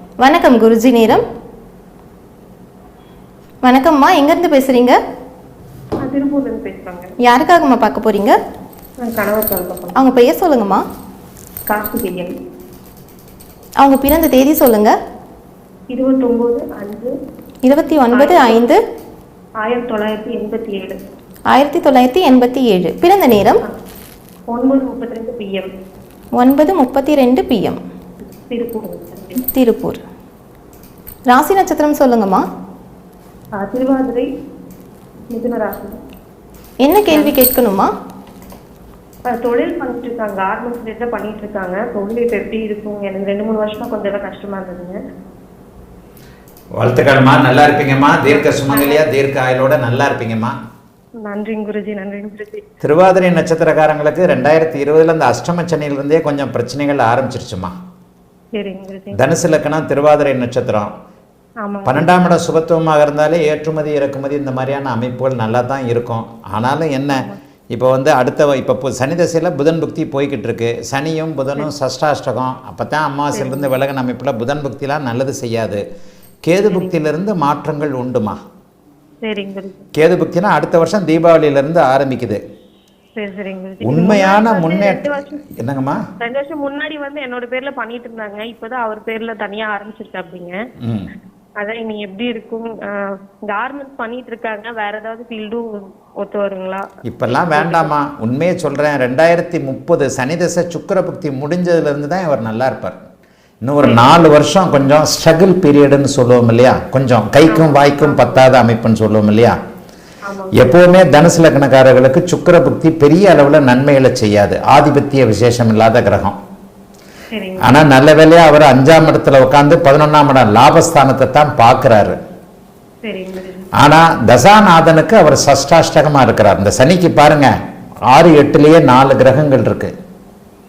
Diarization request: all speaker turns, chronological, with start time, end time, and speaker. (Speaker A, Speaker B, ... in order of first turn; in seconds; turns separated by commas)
Speaker A: 0.2-1.2, Speaker A: 3.6-5.0, Speaker B: 6.0-7.1, Speaker A: 7.2-8.4, Speaker B: 9.0-10.0, Speaker A: 9.9-10.8, Speaker B: 11.7-12.3, Speaker A: 13.8-14.9, Speaker B: 15.9-17.1, Speaker A: 17.7-18.8, Speaker B: 18.1-18.7, Speaker B: 19.6-21.0, Speaker A: 21.5-23.6, Speaker B: 24.5-25.7, Speaker A: 26.4-27.8, Speaker B: 28.5-29.4, Speaker A: 29.5-30.0, Speaker A: 31.3-32.4, Speaker B: 33.6-34.3, Speaker B: 35.3-36.0, Speaker A: 36.8-37.9, Speaker B: 37.1-37.4, Speaker B: 39.3-45.0, Speaker C: 46.8-50.5, Speaker B: 48.3-49.1, Speaker B: 51.2-52.6, Speaker C: 52.8-57.7, Speaker B: 58.6-59.2, Speaker C: 59.1-60.9, Speaker B: 61.6-62.1, Speaker C: 61.9-75.8, Speaker B: 67.1-67.4, Speaker B: 73.3-73.8, Speaker C: 76.5-78.4, Speaker B: 76.7-77.0, Speaker B: 79.2-79.8, Speaker C: 80.0-82.4, Speaker B: 83.2-85.4, Speaker C: 83.8-86.0, Speaker B: 86.2-90.5, Speaker C: 90.8-91.1, Speaker B: 91.6-92.9, Speaker B: 93.5-95.7, Speaker B: 96.2-97.9, Speaker C: 97.0-103.0, Speaker C: 103.6-109.5, Speaker B: 103.8-104.3, Speaker B: 107.5-108.5, Speaker B: 110.3-110.6, Speaker C: 110.6-116.4, Speaker B: 117.3-117.9, Speaker C: 117.6-122.2, Speaker B: 123.0-123.7, Speaker C: 123.8-127.5, Speaker C: 128.1-129.9